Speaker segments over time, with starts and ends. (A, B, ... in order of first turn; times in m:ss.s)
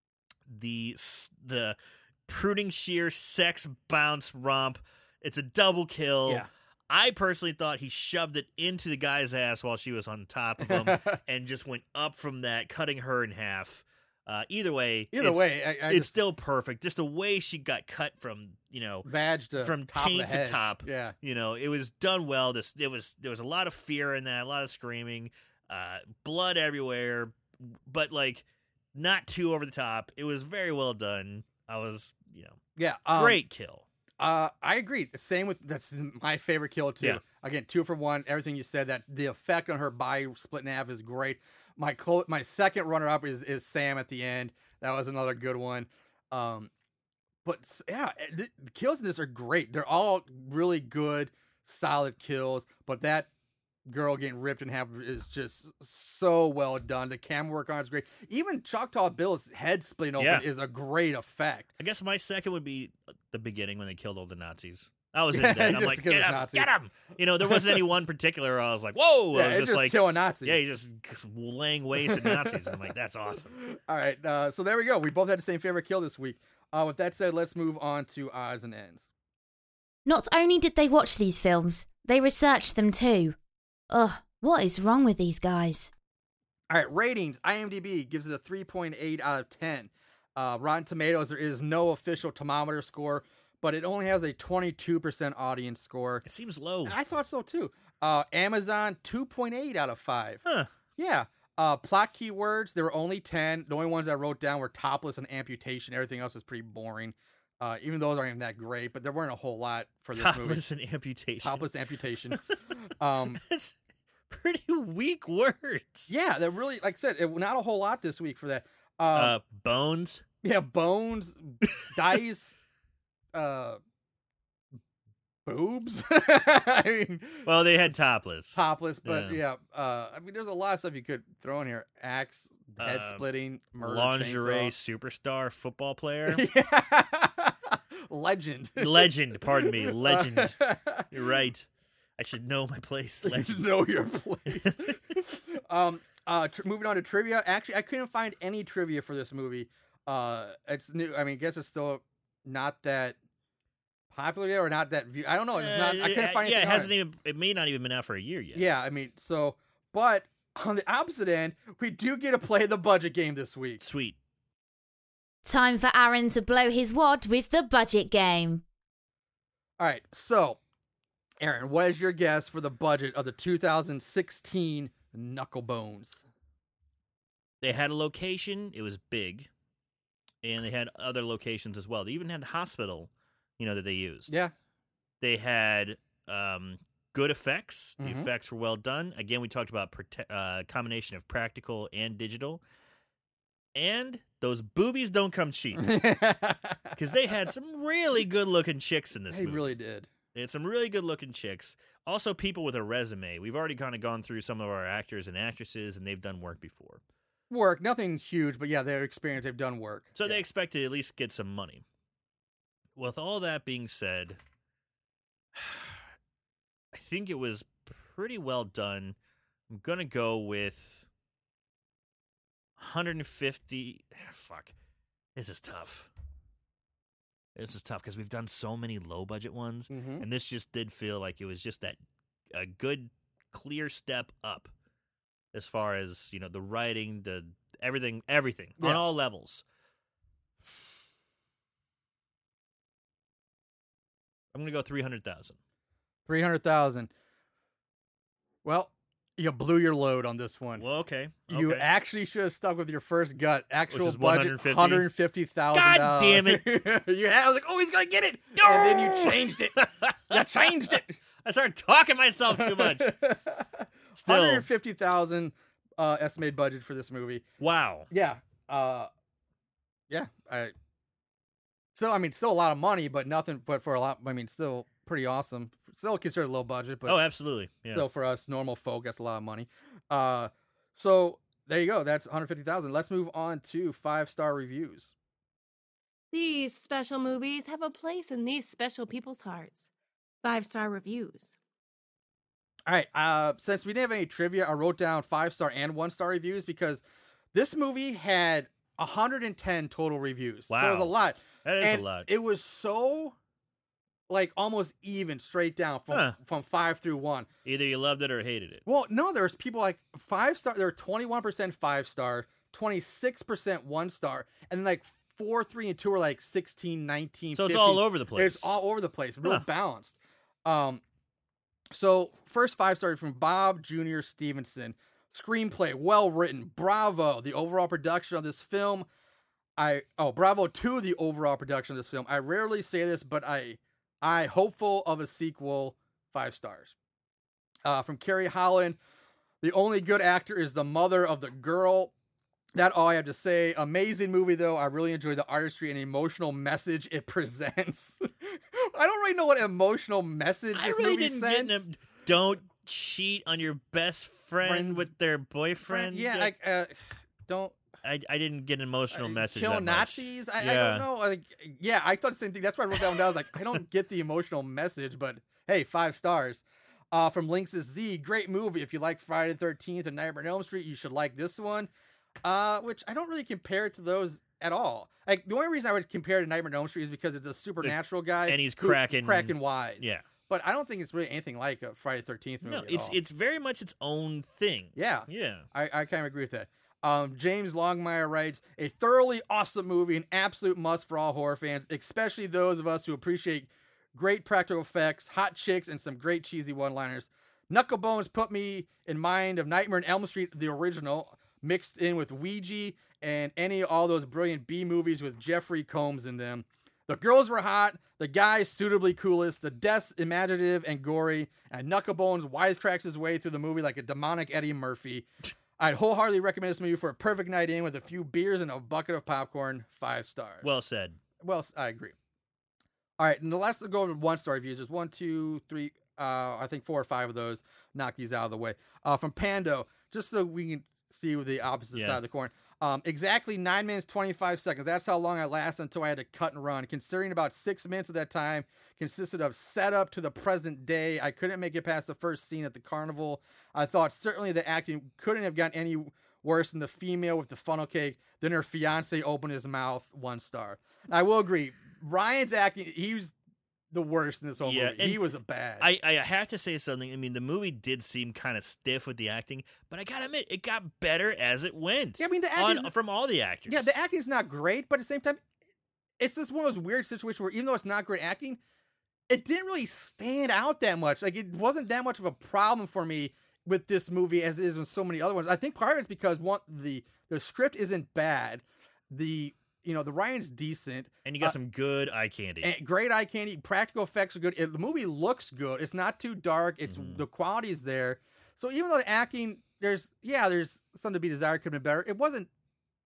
0:00.5-0:19.1 A
0:10.6-0:11.2 B
0:15.1-0:16.2 B
0:19.0-0:21.1 B
0:19.6-0:32.6 A
0:32.8-0:33.4 B
0:33.1-0:33.9 A
0:34.2-0:46.7 B
0:47.4-0:53.3 B
0:53.9-1:01.7 B
1:00.2-1:00.5 A
1:01.8-1:13.6 A
1:05.3-1:06.7 B
1:07.5-1:07.8 B
1:09.3-1:10.6 B
1:12.0-1:12.8 B
1:13.5-1:19.0 B
1:20.1-1:23.4 C
1:23.9-1:25.9 C
1:26.7-1:36.2 B
1:36.2-1:37.0 A
1:36.8-1:40.4 B
1:40.4-1:40.7 A
1:41.0-1:50.6 B
1:50.2-1:51.7 A
1:51.4-1:53.4 B
1:53.3-1:53.8 A
1:54.3-1:56.1 A
1:56.1-1:59.4 B
1:59.1-2:00.2 A
2:00.4-2:02.6 B
2:03.3-2:03.8 B
2:05.5-2:07.5 B
2:07.4-2:09.4 A
2:08.6-2:14.7 B
2:12.8-2:13.2 A
2:13.8-2:16.4 A
2:16.3-2:21.1 B
2:18.8-2:20.6 A
2:21.1-2:21.7 A
2:22.2-2:23.7 A
2:23.2-2:33.2 B
2:24.5-2:25.0 A
2:34.1-2:36.9 B
2:35.5-2:38.7 A
2:38.6-2:43.8 B
2:43.8-2:44.2 A
2:45.4-2:48.6 C
2:49.8-2:50.6 B
2:51.4-2:56.2 B
2:57.6-2:59.5 A
3:00.4-3:04.3 A
3:05.2-3:12.6 A
3:08.0-3:08.3 B
3:13.8-3:16.0 A
3:15.8-3:17.0 B
3:17.0-3:19.7 A
3:19.3-3:20.1 B
3:20.3-3:27.0 A
3:27.5-3:30.4 B
3:30.2-3:31.8 A
3:33.0-3:34.4 A
3:35.6-3:36.0 A
3:36.9-3:39.2 A
3:39.7-3:41.1 A
3:42.8-3:44.8 A
3:45.4-3:46.1 A
3:47.6-3:52.0 A
3:49.9-3:50.2 B
3:52.5-3:54.7 A
3:55.5-3:59.6 A
3:58.8-3:59.0 B
4:04.5-4:05.6 A
4:06.3-4:07.1 B
4:08.6-4:10.8 B
4:10.8-4:11.9 A
4:11.5-4:21.2 B
4:13.9-4:15.1 A
4:15.7-4:16.6 A
4:18.6-4:23.1 A
4:22.5-4:27.4 B
4:24.2-4:24.7 A
4:27.6-4:28.1 A
4:28.1-4:29.1 B
4:30.1-4:30.7 B
4:32.0-4:37.2 B
4:37.1-4:38.1 A
4:37.9-4:45.1 B
4:46.3-4:49.9 D
4:50.4-4:51.6 D
4:52.9-4:57.0 B
4:57.5-5:03.4 B
5:00.7-5:02.3 A
5:04.3-5:07.5 B
5:06.1-5:06.4 A
5:07.6-5:08.8 A
5:08.9-5:21.0 B
5:17.5-5:18.8 A
5:21.9-5:29.1 B
5:29.8-5:36.9 B
5:37.8-5:39.0 B
5:39.6-5:42.1 B
5:42.8-5:51.8 B
5:50.7-5:56.5 A
5:54.6-5:55.1 B
5:55.8-5:56.9 B
5:57.5-5:57.8 B
5:58.0-6:01.1 A
5:59.1-6:11.9 B
6:12.4-6:23.2 B
6:17.8-6:20.3 A
6:22.6-6:25.7 A
6:25.0-7:00.7 B
7:00.6-7:01.2 A
7:01.4-7:02.2 B
7:03.2-7:33.3 B
7:11.9-7:12.2 A
7:33.9-7:35.9 B
7:34.6-7:35.2 A
7:35.8-7:44.0 A
7:42.2-7:42.9 B
7:43.7-7:45.4 B
7:46.2-7:48.6 B
7:49.3-8:01.6 B
8:01.2-8:02.7 A
8:02.6-8:12.5 B
8:06.9-8:07.2 A